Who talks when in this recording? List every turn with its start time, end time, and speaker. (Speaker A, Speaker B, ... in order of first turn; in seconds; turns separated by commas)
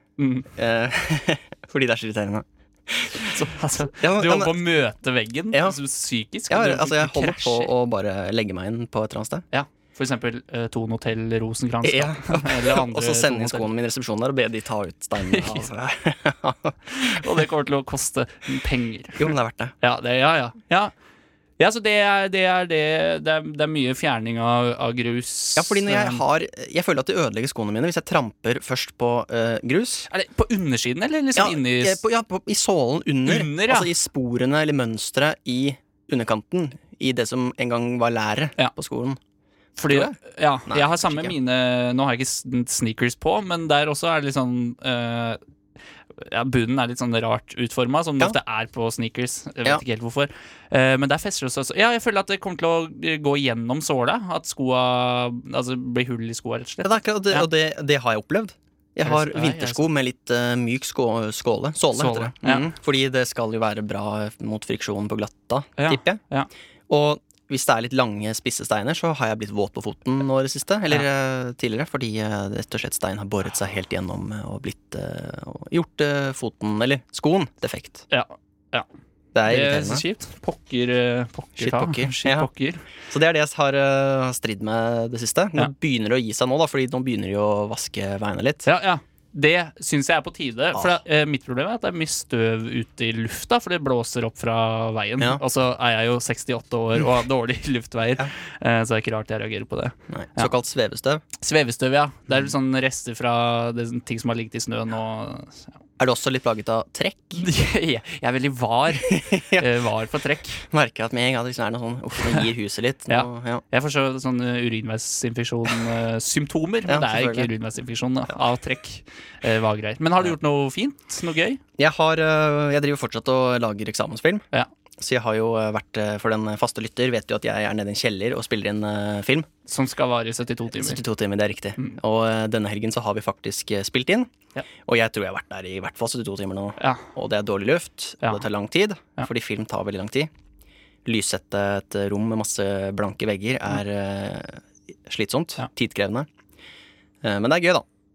Speaker A: 0.2-0.5, Speaker B: 0.5-3.3, Speaker A: 3.1-7.7, Speaker B: 3.9-4.6, Speaker B: 5.5-5.8, Speaker B: 6.5-9.4, Speaker A: 9.5-13.7, Speaker B: 11.8-17.3, Speaker A: 15.3-15.7, Speaker A: 16.9-20.9, Speaker B: 19.2-19.8, Speaker A: 21.6-26.2, Speaker B: 25.6-30.1, Speaker A: 30.1-32.0, Speaker B: 31.4-39.2, Speaker A: 33.2-33.9, Speaker A: 39.8-45.4, Speaker B: 39.9-41.4, Speaker A: 46.2-57.5, Speaker B: 56.8-66.2, Speaker A: 59.0-59.9, Speaker A: 62.0-62.7, Speaker A: 65.8-66.5, Speaker B: 66.9-78.1, Speaker A: 78.1-78.9, Speaker B: 79.3-80.0, Speaker A: 79.5-82.9, Speaker B: 81.6-82.5, Speaker B: 83.1-88.7, Speaker A: 88.7-100.5, Speaker B: 90.7-91.0, Speaker B: 100.1-101.2, Speaker A: 101.4-105.7, Speaker B: 106.0-107.4, Speaker A: 107.4-110.7, Speaker B: 109.0-109.7, Speaker B: 110.7-113.6, Speaker A: 113.1-121.6, Speaker B: 116.9-117.5, Speaker B: 121.8-124.4, Speaker B: 125.0-129.5, Speaker A: 129.7-131.0, Speaker B: 130.7-134.3, Speaker B: 134.9-140.3, Speaker A: 136.8-137.1, Speaker B: 141.1-146.3, Speaker B: 147.2-147.8